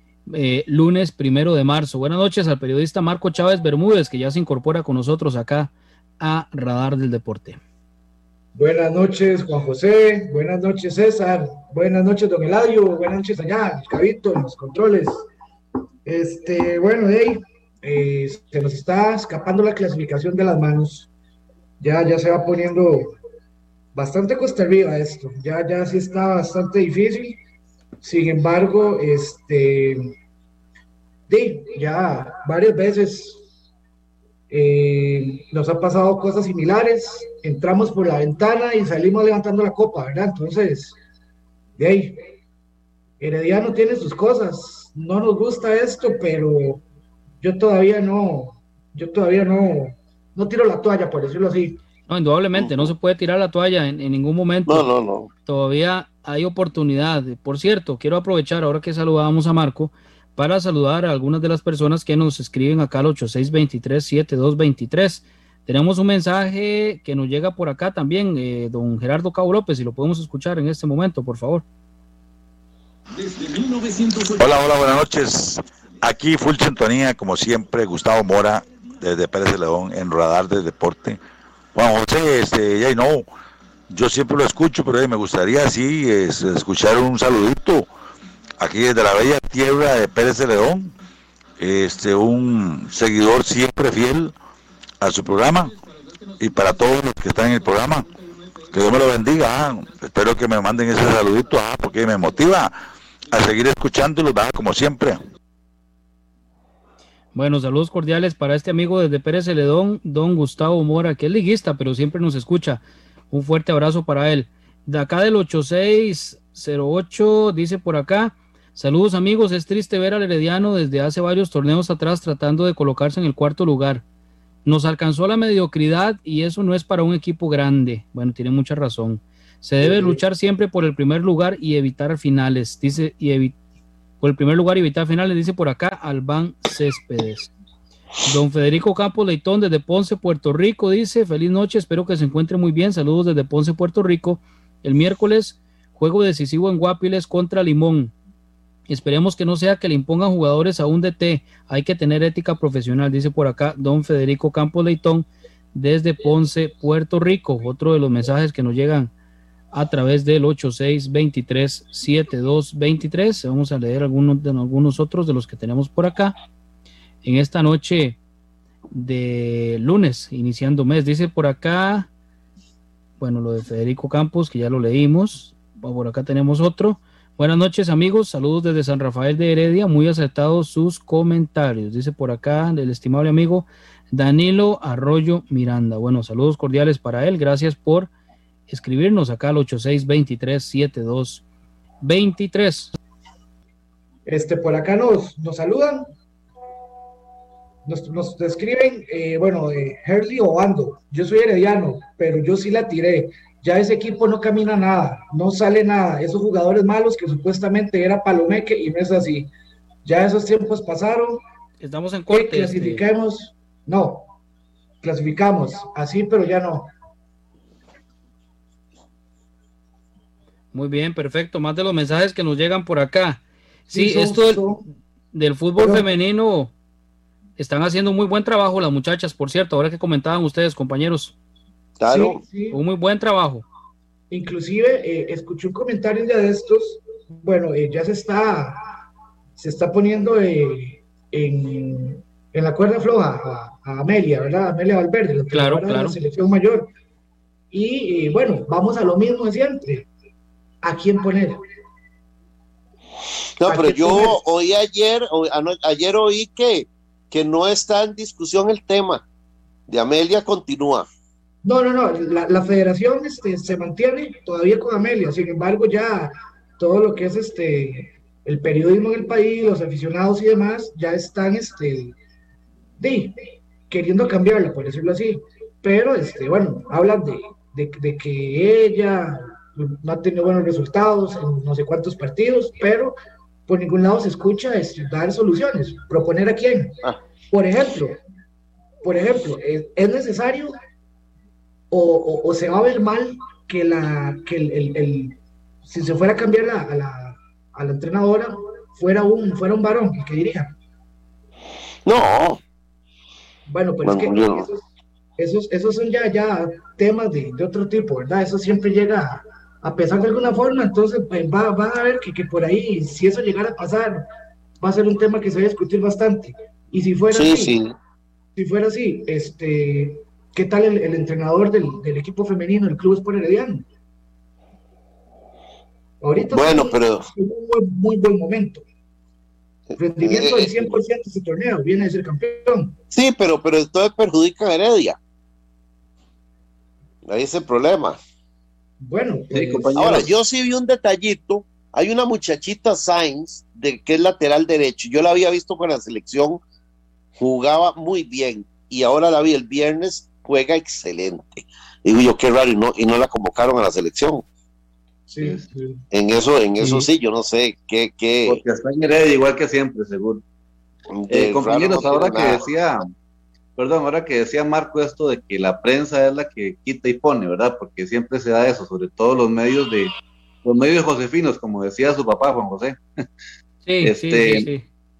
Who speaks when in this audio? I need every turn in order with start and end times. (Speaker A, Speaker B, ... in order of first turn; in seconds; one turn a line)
Speaker A: 0.3-7.6
Speaker B: 8.6-15.2
Speaker B: 16.1-21.1
Speaker B: 21.8-23.1
Speaker B: 23.9-27.4
Speaker B: 28.0-30.1
Speaker B: 31.3-33.4
Speaker B: 34.5-41.0
Speaker B: 41.8-42.2
Speaker B: 43.2-46.8
Speaker B: 47.4-51.8
Speaker A: 52.1-54.9
Speaker C: 52.5-52.9
Speaker C: 54.7-55.3
Speaker A: 55.5-71.7
Speaker D: 74.4-81.2
Speaker D: 81.7-83.3
Speaker D: 83.9-87.9
Speaker D: 88.6-90.9
Speaker D: 91.6-94.3
Speaker D: 95.0-95.8
Speaker D: 96.4-98.1
Speaker D: 98.7-102.7
Speaker D: 103.3-105.2
Speaker A: 107.3-124.0
Speaker A: 124.7-133.6
Speaker B: 129.8-130.2
Speaker A: 134.2-137.5
Speaker A: 138.2-148.1
Speaker A: 148.9-159.1
Speaker A: 159.7-166.4
Speaker A: 167.2-168.2
Speaker A: 168.9-172.1
Speaker A: 173.2-188.1
Speaker A: 188.7-191.4
Speaker A: 192.0-192.9
Speaker B: 194.3-196.1
Speaker B: 197.9-209.5
Speaker B: 210.1-211.4
Speaker A: 211.8-213.1
Speaker B: 212.3-214.3
Speaker B: 215.0-216.9
Speaker A: 220.7-224.7
Speaker B: 223.9-224.8
Speaker A: 225.3-226.7
Speaker B: 225.8-226.1
Speaker A: 227.6-231.3
Speaker C: 232.0-232.4
Speaker B: 232.1-232.8
Speaker A: 232.7-233.6
Speaker B: 234.3-238.8
Speaker B: 239.6-246.9
Speaker A: 245.5-246.2
Speaker B: 247.7-250.1
Speaker B: 250.8-251.6
Speaker C: 253.6-259.2
Speaker B: 253.7-254.4
Speaker C: 259.9-261.1
Speaker B: 261.6-272.1
Speaker B: 273.0-273.3
Speaker B: 273.9-283.2
Speaker B: 283.7-287.0
Speaker B: 287.5-288.2
Speaker B: 289.0-290.8
Speaker B: 291.9-300.8
Speaker C: 302.1-302.6
Speaker B: 303.7-304.8
Speaker C: 304.0-304.7
Speaker B: 305.4-314.2
Speaker B: 314.8-317.8
Speaker C: 317.3-317.9
Speaker B: 318.6-323.9
Speaker B: 326.2-328.8
Speaker C: 326.5-327.2
Speaker C: 329.9-331.0
Speaker B: 330.0-332.9
Speaker C: 333.1-335.2
Speaker C: 337.2-338.2
Speaker B: 339.0-340.0
Speaker E: 339.5-340.3
Speaker C: 339.9-346.6
Speaker C: 347.4-354.4
Speaker B: 355.3-356.0
Speaker C: 356.1-358.6
Speaker E: 358.5-360.4
Speaker C: 361.1-362.6
Speaker E: 361.3-363.0
Speaker E: 363.8-370.1
Speaker E: 370.6-373.0
Speaker A: 373.9-374.9
Speaker E: 374.0-374.7